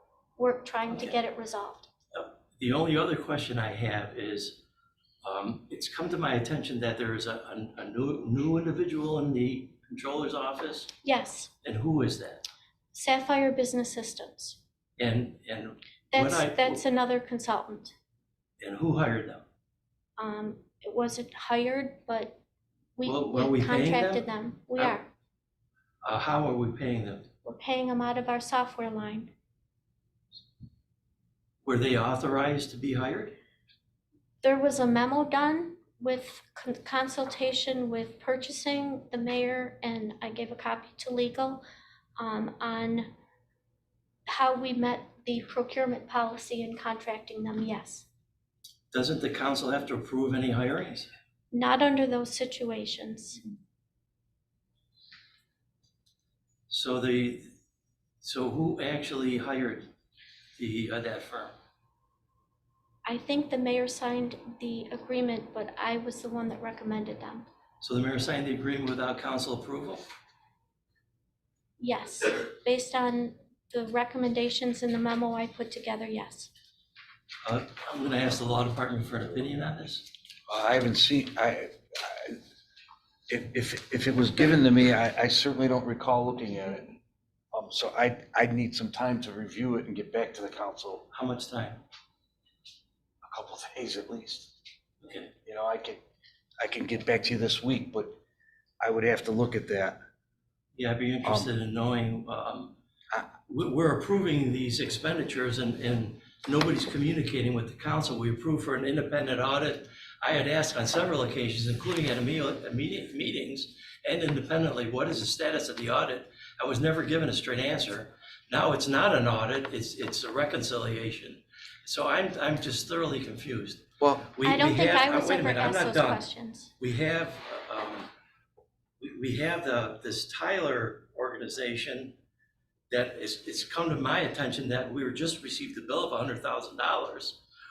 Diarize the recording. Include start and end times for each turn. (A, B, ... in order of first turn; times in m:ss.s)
0:00.4-0:01.9 A
0:02.1-0:04.6 B
0:05.2-0:10.9 B
0:11.0-0:11.5 A
0:11.6-0:12.4 B
0:12.9-0:14.6 A
0:15.0-0:16.8 B
0:16.1-0:17.9 A
0:18.6-0:19.4 B
0:20.2-0:22.4 A
0:23.0-0:25.1 A
0:23.0-0:24.2 B
0:26.0-0:27.3 B
0:27.4-0:29.3 A
0:31.6-0:33.4 B
0:34.4-0:41.6 A
0:42.2-0:43.1 A
0:44.3-0:48.1 A
0:48.9-0:51.1 B
0:51.5-0:53.4 A
0:56.7-0:57.5 B
0:58.2-0:59.9 B
1:00.6-1:01.5 B
1:03.0-1:07.5 A
1:07.8-1:10.0 B
1:11.8-1:16.5 A
1:17.4-1:20.1 B
1:20.5-1:22.4 C
1:23.3-1:27.0 C
1:27.5-1:31.0 C
1:31.1-1:31.8 B
1:33.2-1:34.5 C
1:35.0-1:35.3 B
1:35.4-1:36.0 C
1:36.6-1:38.1 C
1:38.8-1:40.0 C
1:40.8-1:42.8 B
1:43.5-2:06.2 B
2:04.4-2:06.7 A
2:06.8-2:08.1 B
2:09.0-2:12.1 B
2:12.9-2:17.4 B